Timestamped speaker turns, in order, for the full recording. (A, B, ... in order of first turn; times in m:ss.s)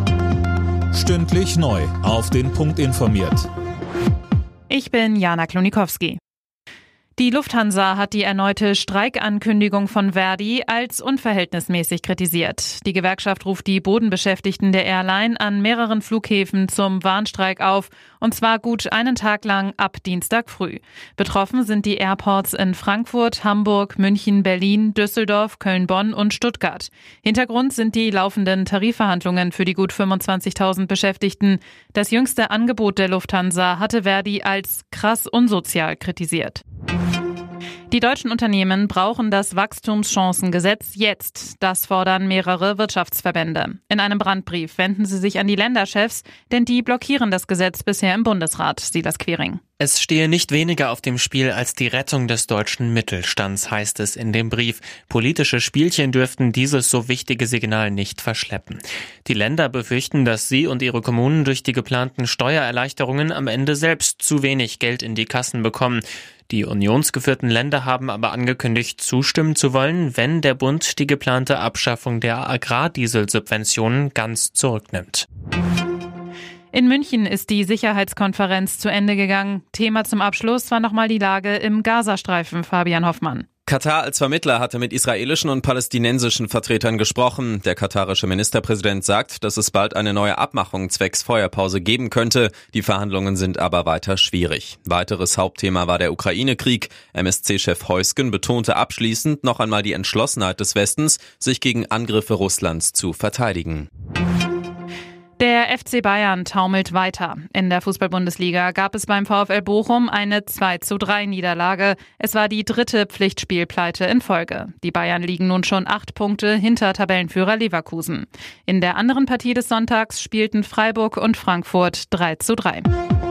0:00.9-0:03.5 A
0:04.7-0:06.2 B
0:07.2-0:36.6 B
0:37.9-0:49.6 B
0:49.8-1:15.2 C
1:16.7-1:23.5 B
1:23.7-1:43.9 D
1:45.4-2:02.9 B